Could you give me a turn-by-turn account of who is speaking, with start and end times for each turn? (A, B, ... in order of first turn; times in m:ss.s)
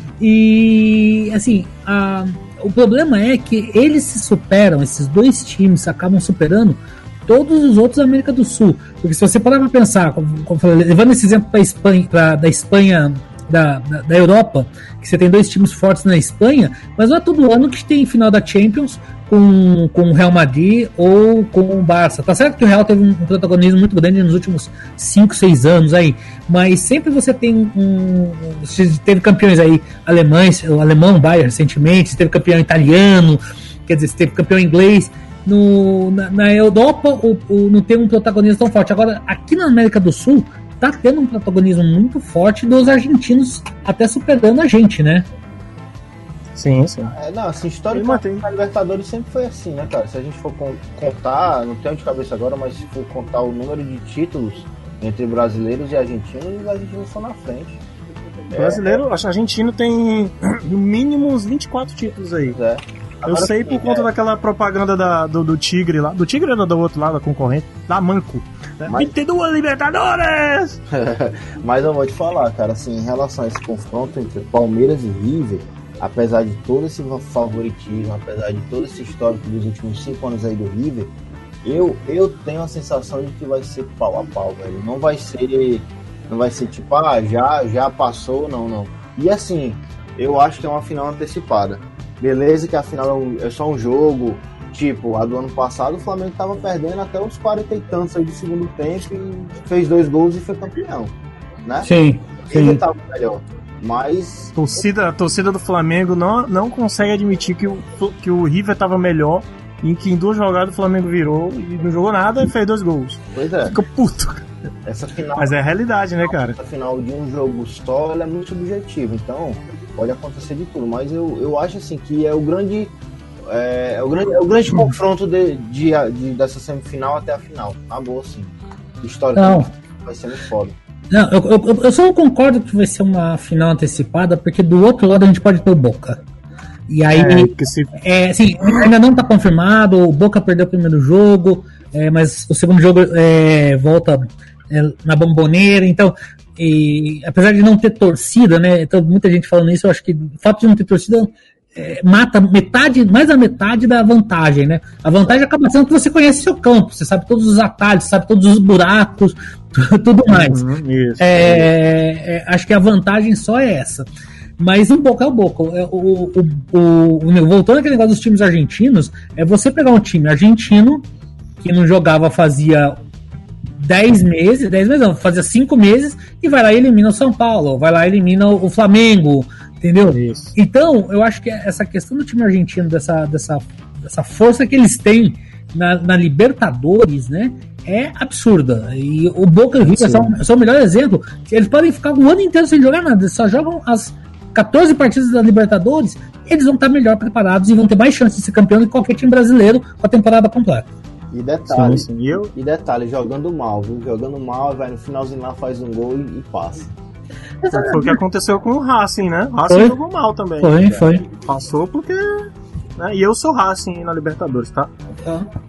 0:00.2-0:45.3 A
0:46.6-0:47.2 B
0:47.1-0:57.8 C
0:47.9-0:48.4 B
0:58.5-0:59.0 C
0:58.5-1:02.6 B
1:02.5-1:04.1 C
1:03.2-1:10.8 B
1:08.8-1:09.1 C
1:10.9-1:41.9 C
1:41.8-1:42.8 A
1:42.5-1:44.6 C
1:44.6-1:54.5 B
1:53.3-1:53.8 C
1:54.8-1:55.5 C
1:55.4-1:56.6 B
1:56.5-2:02.9 C
2:03.5-2:10.8 C
2:09.4-2:09.7 A
2:11.1-2:16.2 A
2:16.9-2:40.6 A
2:17.1-2:17.9 B
2:40.3-2:41.7 B
2:41.2-2:44.1 A
2:44.6-2:51.1 A
2:51.6-2:53.0 A
2:53.8-3:20.9 A
3:00.1-3:00.6 B
3:09.9-3:10.2 B
3:21.3-3:26.9 C
3:21.7-3:22.5 B
3:27.6-3:28.2 A
3:27.7-3:34.9 B
3:29.7-3:30.0 A
3:30.6-3:31.3 A